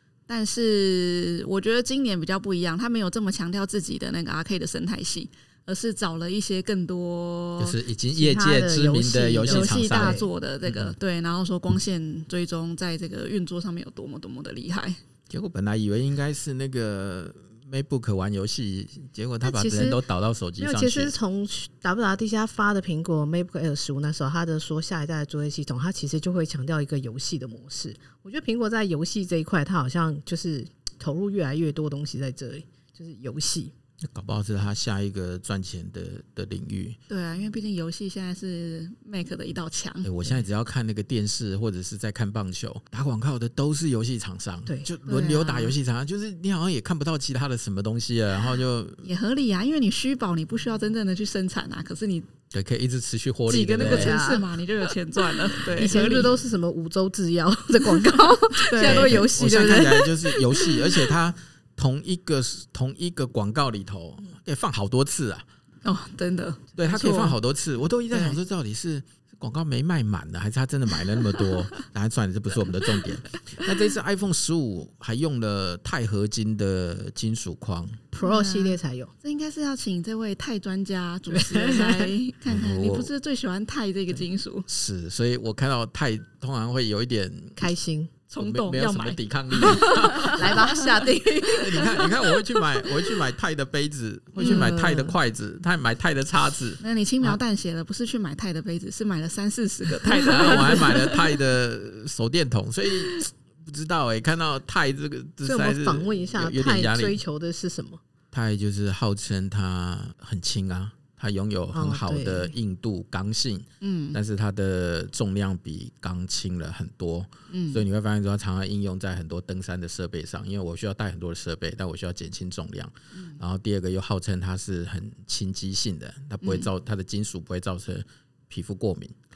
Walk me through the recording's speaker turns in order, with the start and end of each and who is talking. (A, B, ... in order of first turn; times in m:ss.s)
0:00.3-0:07.8 A
0:07.6-0:11.0 B
0:08.1-0:10.3 C
0:09.4-0:15.0 A
0:15.3-0:21.2 B
0:19.4-0:20.0 C
0:20.6-0:33.7 C
0:34.1-0:37.0 B
0:37.1-0:40.1 A
0:40.0-0:49.0 B
0:44.7-0:44.9 C
0:45.1-0:45.7 A
0:49.0-0:52.3 A
0:52.5-0:54.2 B
0:53.5-0:56.4 A
0:53.8-0:54.5 C
0:55.6-1:01.2 C
0:55.8-0:56.2 B
0:58.6-0:59.2 A
0:58.8-1:05.4 B
1:05.8-1:07.4 A
1:06.8-1:18.0 B
1:18.1-1:19.1 C
1:18.2-1:24.7 A
1:21.3-1:22.1 C
1:22.5-1:23.1 B
1:24.7-1:27.7 B
1:27.6-1:28.1 C
1:28.3-1:31.0 A
1:28.4-1:30.7 B
1:29.7-1:32.2 C
1:31.5-1:37.4 B
1:34.4-1:34.8 A
1:34.4-1:35.2 C
1:36.8-1:41.2 A
1:40.2-1:47.2 B
1:45.4-1:48.0 C
1:48.3-2:09.1 B
1:51.7-1:52.5 C
1:53.8-1:54.2 A
1:57.5-1:57.8 A
2:03.2-2:03.4 A
2:06.4-2:06.7 A